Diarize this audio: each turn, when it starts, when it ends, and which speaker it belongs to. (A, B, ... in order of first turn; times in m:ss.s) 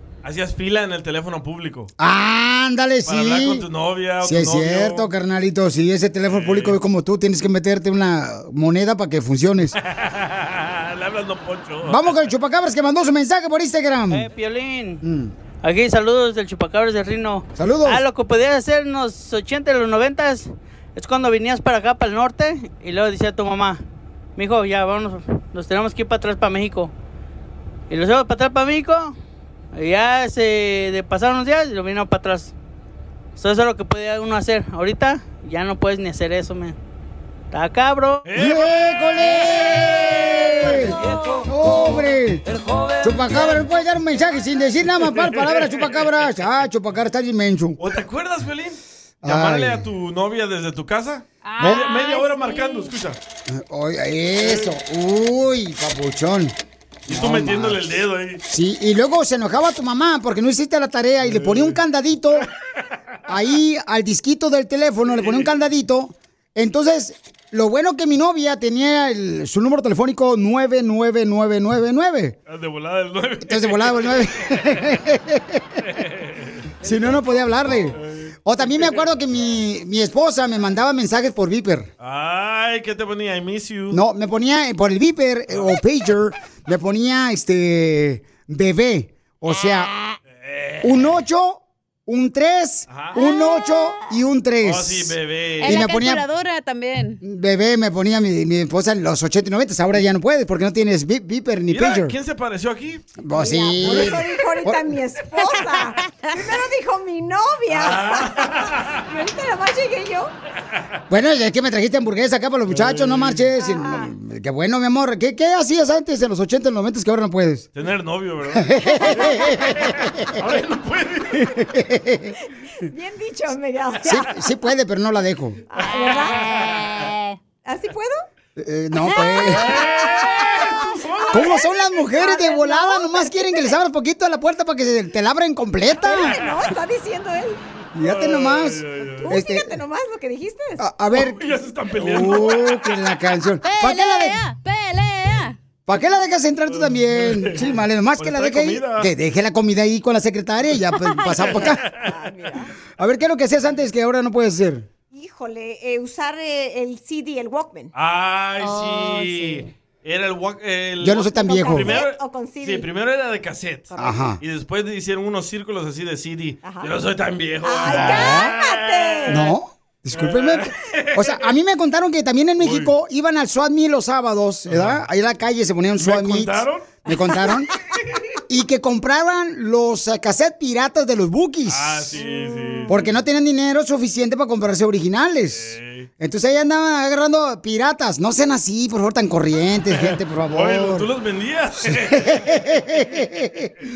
0:00.2-0:01.9 A
0:02.0-0:03.6 B
0:03.0-0:05.1 A
0:04.2-0:09.8 B
0:06.3-0:06.8 A
0:09.8-0:12.2 A
0:11.8-0:14.2 B
0:14.1-0:15.0 C
0:15.0-0:15.3 B
0:15.6-0:23.8 C
0:17.6-0:18.0 B
0:24.4-0:26.9 C
0:27.9-0:29.1 C
0:29.7-0:32.5 C
0:33.4-0:36.8 C
0:37.5-0:38.2 C
0:38.2-0:40.6 A
0:38.4-0:42.4 B
0:43.0-0:47.8 B
0:45.0-0:46.3 A
0:47.8-0:53.2 A
0:49.2-0:49.8 B
0:51.4-0:52.9 D
0:53.5-0:56.5 B
0:54.4-0:54.7 A
0:57.1-0:57.9 B
0:57.1-0:58.4 A
0:58.4-1:02.5 B
1:01.2-1:01.8 A
1:03.3-1:12.4 B
1:05.0-1:05.5 A
1:12.5-1:14.9 A
1:13.4-1:15.6 B
1:15.8-1:17.2 A
1:16.8-1:21.9 B
1:17.9-1:19.1 A
1:22.0-1:24.0 A
1:23.9-1:29.9 B
1:25.5-1:25.8 A
1:30.4-1:31.1 A
1:30.8-1:36.2 B
1:32.9-1:33.2 A
1:33.2-1:33.9 D
1:34.6-1:35.9 A
1:35.6-1:37.2 D
1:37.2-1:42.1 B
1:41.7-1:43.1 A
1:43.2-1:44.9 B
1:43.3-1:48.5 E
1:47.7-1:49.0 A
1:49.1-1:50.3 E
1:51.1-1:57.7 B
1:52.7-1:53.5 A
1:53.6-1:54.0 E
1:57.7-2:01.6 A
1:58.5-2:00.4 B
2:01.5-2:02.3 B
2:02.9-2:04.2 E
2:04.0-2:05.6 B
2:05.7-2:06.4 E
2:05.8-2:07.4 D
2:06.3-2:06.9 A
2:07.6-2:08.1 E
2:08.6-2:09.8 B
2:09.1-2:09.5 D
2:09.4-2:11.6 A
2:11.2-2:13.7 E
2:11.3-2:16.4 B
2:16.0-2:17.6 E
2:16.2-2:16.7 A
2:17.9-2:19.4 A
2:17.9-2:19.8 B
2:19.2-2:20.8 E
2:20.8-2:24.4 B
2:21.1-2:23.0 A
2:23.6-2:25.6 D
2:25.9-2:31.8 B
2:26.7-2:29.1 A
2:31.1-2:31.5 D
2:31.4-2:32.5 A
2:32.0-2:32.6 E
2:33.0-2:34.9 B
2:35.1-2:37.9 E
2:37.9-2:49.5 A
2:38.6-2:39.7 D
2:41.0-2:42.0 B
2:41.3-2:42.9 E
2:44.0-2:44.4 B
2:46.6-2:46.9 E
2:47.6-2:49.3 E
2:47.9-2:48.5 B
2:49.2-2:57.7 B
2:50.1-2:51.4 A
2:52.6-2:52.9 A
2:54.7-2:55.0 A
2:56.0-2:57.0 A
2:58.5-3:02.2 B
3:01.7-3:03.0 A
3:02.9-3:11.1 B
3:05.5-3:06.1 A
3:09.9-3:12.8 A
3:11.8-3:13.7 B